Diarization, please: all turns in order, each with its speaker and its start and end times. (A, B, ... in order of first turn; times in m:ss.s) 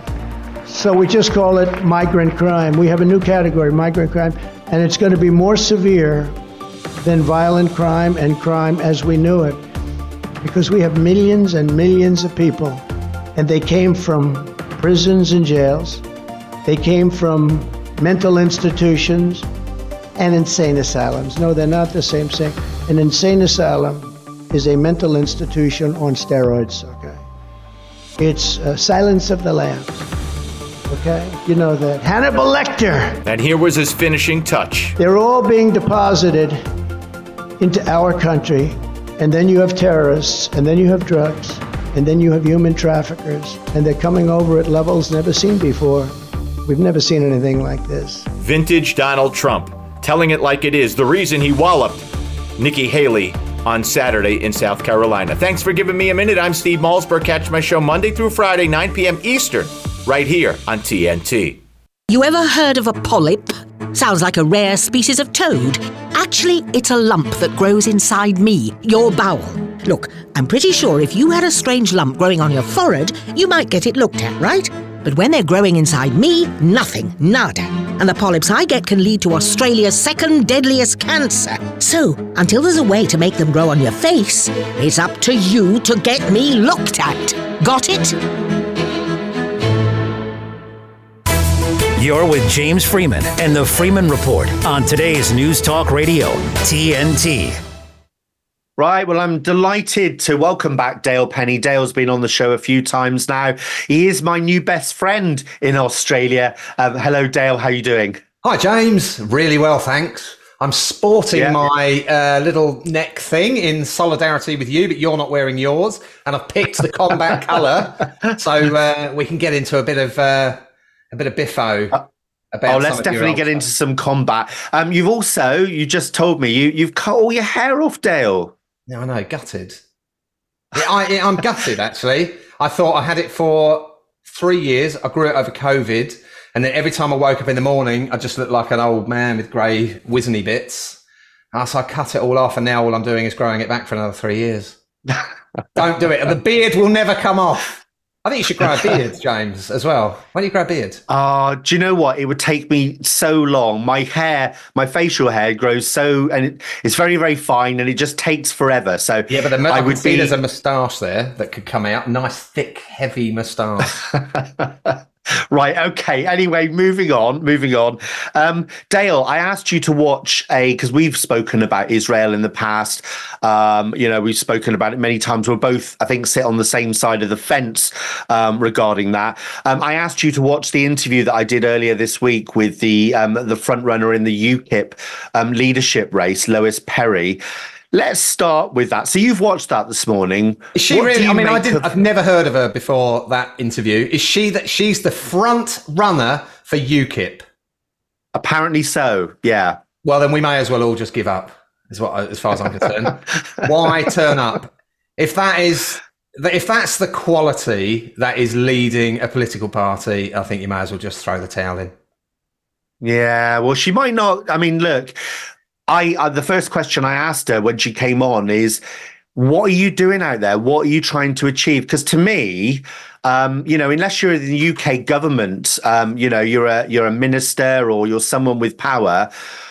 0:00.6-0:06.4 A
0:07.0-0:09.6 A
0:10.4-0:12.8 A
0:13.3-0:16.0 A
0:16.6-0:19.4 A
0:20.2-0:27.2 A
0:28.2-0:30.1 A
0:30.9-0:33.2 A
0:33.2-0:35.0 B
0:35.0-0:36.6 A
0:37.6-0:46.1 A
0:46.6-0:48.3 A
0:48.4-1:01.6 B
1:02.1-1:28.2 C
1:32.0-1:37.6 D
1:38.8-1:48.2 E
1:48.4-2:00.6 F
1:51.3-1:51.7 E
2:01.1-2:02.0 F
2:02.5-2:03.6 F
2:02.6-2:08.5 E
2:08.9-2:09.8 F
2:10.7-2:21.0 F
2:21.5-2:24.8 F
2:25.8-2:31.0 F
2:31.1-2:40.4 E
2:39.3-2:43.9 F
2:44.0-3:07.4 E
3:07.9-3:11.9 E
3:10.7-3:17.4 F
3:18.3-3:19.8 E
3:20.0-3:31.9 F
3:33.0-3:35.2 E
3:35.9-3:38.8 E
3:39.3-3:49.3 E